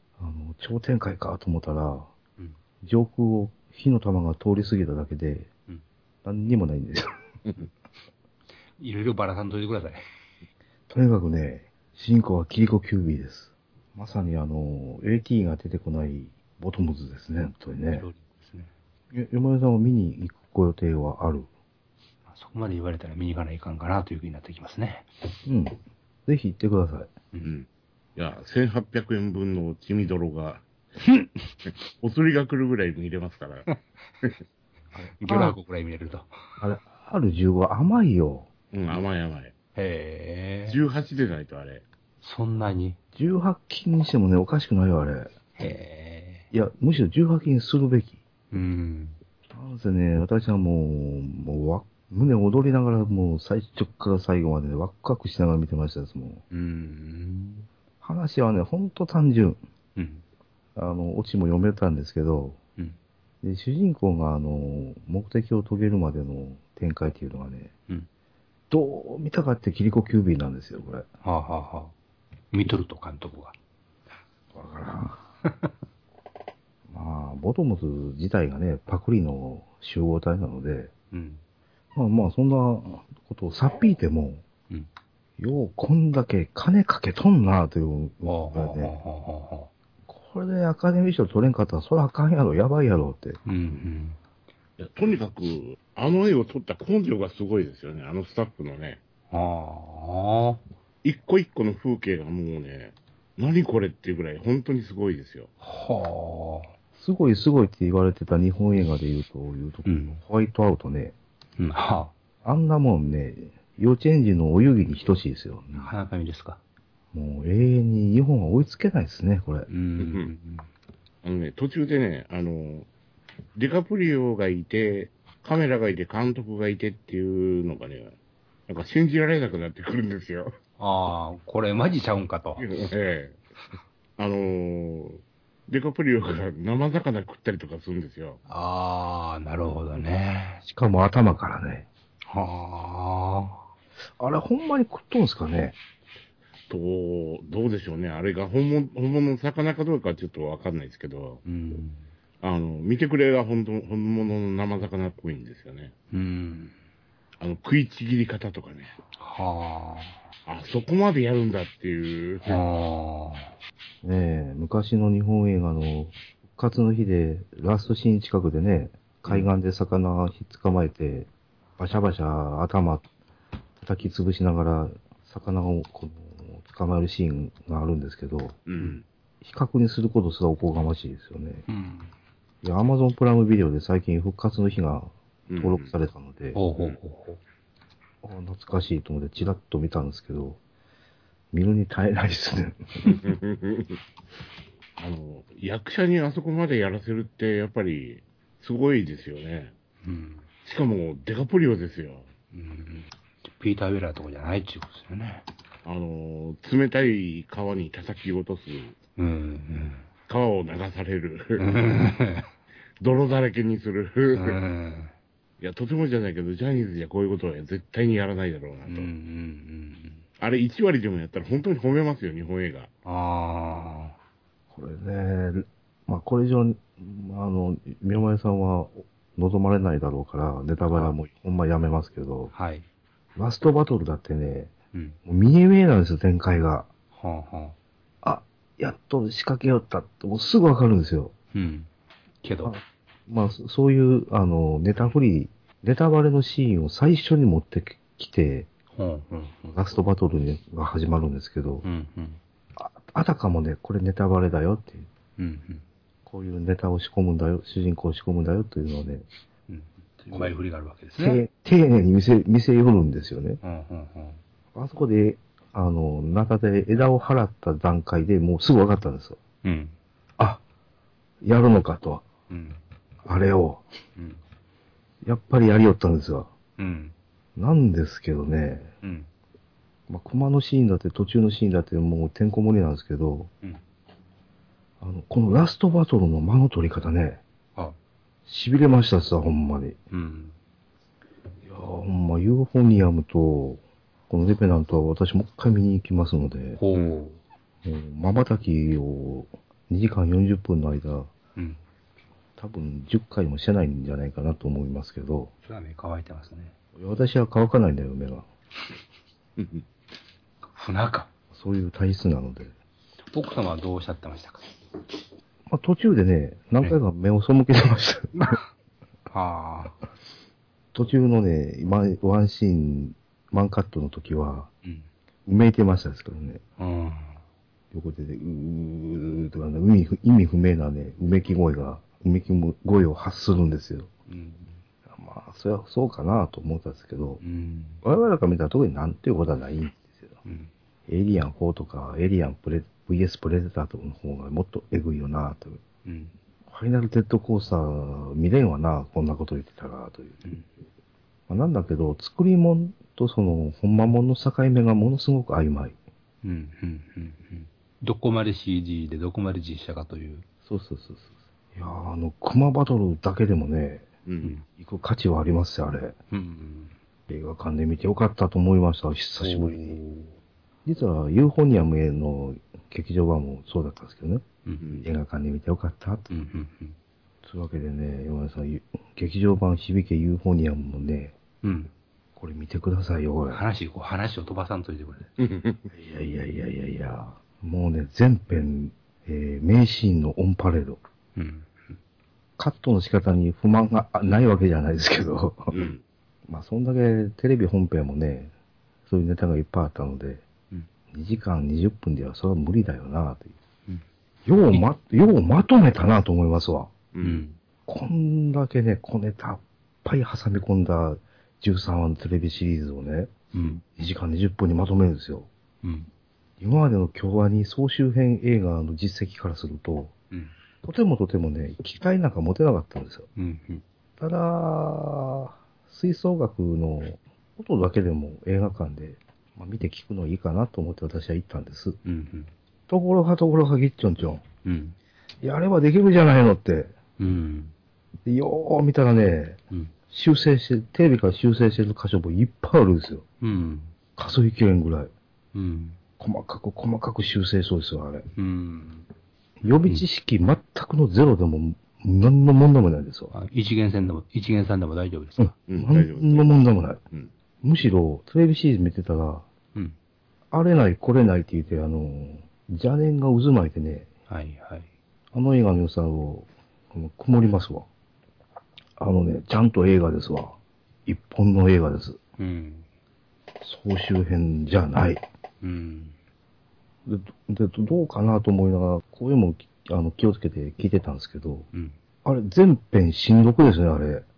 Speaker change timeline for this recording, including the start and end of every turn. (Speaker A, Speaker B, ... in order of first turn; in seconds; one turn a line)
Speaker A: 0.2-2.1
Speaker A: 2.8-5.5
Speaker A: 6.2-7.2
Speaker B: 8.8-10.0
Speaker A: 10.9-18.1
Speaker B: 17.9-18.7
Speaker A: 19.1-21.5
Speaker B: 22.3-25.1
Speaker A: 25.4-27.1
Speaker C: 27.4-30.6
Speaker C: 31.9-33.7
Speaker B: 33.7-34.3
Speaker A: 34.9-35.6
Speaker B: 35.2-36.6
Speaker A: 36.6-38.5
Speaker C: 38.7-39.5
Speaker B: 39.8-40.8
Speaker C: 40.7-41.8
Speaker B: 42.2-43.0
Speaker A: 43.1-45.3
Speaker B: 45.5-46.5
Speaker A: 46.5-48.2
Speaker B: 48.5-49.2
Speaker A: 49.5-56.4
Speaker B: 56.5-57.7
Speaker A: 58.0-59.6
Speaker B: 60.0-60.2
Speaker A: 60.7-62.6
Speaker A: 63.4-67.7
Speaker A: 68.7-71.1
Speaker B: 71.2-71.9
Speaker B: 72.5-73.5
Speaker A: 74.5-75.2
Speaker B: 75.4-75.7
Speaker A: 76.9-80.9
Speaker B: 81.1-81.4
Speaker A: 81.9-84.4
Speaker A: 85.4-88.9
Speaker B: 88.2-89.7
Speaker A: 90.1-93.4
Speaker B: 93.5-94.2
Speaker C: 94.8-99.0
Speaker B: 99.3-100.6
Speaker C: 101.0-105.5
Speaker B: 105.6-106.7
Speaker A: 107.0-111.1
Speaker B: 109.8-110.2
Speaker B: 111.6-112.1
Speaker A: 112.4-115.9
Speaker B: 115.8-116.6
Speaker A: 117.1-119.7
Speaker B: 119.7-120.7
Speaker C: 120.0-120.3
Speaker C: 121.2-122.9
Speaker C: 123.5-128.1
Speaker C: 128.7-130.5
Speaker B: 130.8-132.7
Speaker C: 132.6-133.4
Speaker C: 134.2-138.4
Speaker B: 138.5-140.6
Speaker A: 140.7-141.9
Speaker B: 142.3-143.7
Speaker A: 144.2-145.8
Speaker C: 146.7-151.4
Speaker B: 151.4-152.0
Speaker C: 152.4-155.9
Speaker B: 156.1-156.7
Speaker C: 157.4-158.9
Speaker B: 159.2-160.2
Speaker C: 160.4-162.6
Speaker B: 162.5-163.5
Speaker A: 164.0-173.0
Speaker A: 173.8-178.6
Speaker C: 178.7-179.0
Speaker A: 179.4-181.6
Speaker B: 181.7-182.1
Speaker A: 182.6-186.6
Speaker C: 185.5-185.9
Speaker B: 186.5-187.4
Speaker A: 188.2-190.6
Speaker A: 191.5-193.2
Speaker C: 193.0-194.0
Speaker C: 195.0-199.7
Speaker B: 200.0-200.4
Speaker C: 200.6-202.3
Speaker B: 202.5-205.5
Speaker C: 205.8-208.9
Speaker B: 209.2-210.1
Speaker C: 210.3-211.7
Speaker B: 211.6-212.5
Speaker C: 213.0-214.6
Speaker B: 214.3-215.1
Speaker C: 215.6-219.1
Speaker B: 218.9-220.2
Speaker C: 220.4-222.9
Speaker B: 223.0-224.2
Speaker A: 224.7-232.5
Speaker B: 232.5-232.8
Speaker A: 233.3-234.7
Speaker A: 235.2-236.9
Speaker B: 237.1-237.8
Speaker A: 238.2-241.3
Speaker B: 241.5-241.9
Speaker B: 242.4-242.8
Speaker A: 242.6-248.7
Speaker B: 248.9-249.8
Speaker A: 249.7-251.8
Speaker B: 251.8-252.4
Speaker A: 252.8-255.1
Speaker B: 255.4-255.8
Speaker A: 256.2-259.2
Speaker B: 259.7-261.4
Speaker A: 260.3-260.6
Speaker A: 261.2-263.6
Speaker B: 263.6-264.4
Speaker A: 264.7-269.4
Speaker B: 269.6-269.9
Speaker A: 271.4-272.2
Speaker B: 272.5-272.8
Speaker A: 273.2-273.8
Speaker B: 274.1-274.4
Speaker A: 275.2-276.5
Speaker B: 276.8-277.1
Speaker A: 277.6-278.9
Speaker B: 279.0-279.3
Speaker A: 280.1-283.5
Speaker A: 285.0-287.4
Speaker A: 288.5-290.0
Speaker B: 290.1-290.6
Speaker A: 291.6-296.8
Speaker B: 296.8-297.4
Speaker A: 297.8-301.3
Speaker A: 302.6-305.5
Speaker B: 305.6-306.7
Speaker A: 306.9-308.5
Speaker C: 309.6-309.8
Speaker B: 310.7-311.3
Speaker A: 311.5-312.7
Speaker B: 313.3-314.8
Speaker A: 315.7-318.6
Speaker B: 319.3-320.0
Speaker A: 320.9-324.7
Speaker A: 325.4-326.6
Speaker B: 326.8-327.4
Speaker A: 327.9-334.1
Speaker B: 334.3-334.8
Speaker A: 335.1-337.4
Speaker B: 337.4-338.0
Speaker A: 338.0-340.3
Speaker B: 340.4-340.7
Speaker A: 341.1-345.8
Speaker B: 346.0-346.3
Speaker A: 346.7-350.4
Speaker A: 351.5-355.9
Speaker B: 356.4-360.4
Speaker A: 360.6-364.1
Speaker C: 364.2-364.5
Speaker A: 364.7-366.1
Speaker B: 366.3-366.9
Speaker A: 367.3-370.0
Speaker B: 369.4-370.4
Speaker A: 370.8-374.4
Speaker C: 374.8-375.1
Speaker A: 375.0-376.3
Speaker B: 376.3-376.9
Speaker A: 377.4-381.3
Speaker B: 381.6-381.9
Speaker A: 382.4-383.6
Speaker B: 383.5-385.3
Speaker C: 385.4-385.8
Speaker A: 385.9-391.0
Speaker B: 391.3-392.0
Speaker A: 392.6-395.9
Speaker C: 395.7-396.0
Speaker A: 396.5-398.5
Speaker A: 399.1-400.4
Speaker A: 401.1-403.5
Speaker A: 404.4-406.9
Speaker C: 407.1-407.4
Speaker B: 407.2-407.6
Speaker A: 407.9-413.3
Speaker B: 413.5-413.8
Speaker A: 413.9-415.5
Speaker B: 415.8-416.1
Speaker A: 416.6-420.1
Speaker A: 420.8-423.3
Speaker B: 423.4-423.8
Speaker A: 424.2-432.0
Speaker B: 432.0-432.5
Speaker A: 432.9-434.4
Speaker B: 434.6-435.0
Speaker A: 435.4-436.9
Speaker B: 437.2-437.7
Speaker A: 438.2-439.6
Speaker A: 440.1-443.2
Speaker B: 443.4-443.9
Speaker A: 444.1-445.1
Speaker B: 445.5-446.0
Speaker A: 446.2-448.3
Speaker B: 448.3-449.1
Speaker A: 449.6-453.3
Speaker B: 453.3-455.5
Speaker A: 455.4-457.0
Speaker C: 455.7-456.6
Speaker A: 457.6-459.4
Speaker A: 460.5-464.1
Speaker B: 464.3-464.9
Speaker A: 465.3-467.9
Speaker A: 469.0-472.2
Speaker B: 472.4-472.9
Speaker A: 473.6-475.2
Speaker B: 475.6-476.1
Speaker A: 477.1-481.7
Speaker A: 482.2-484.2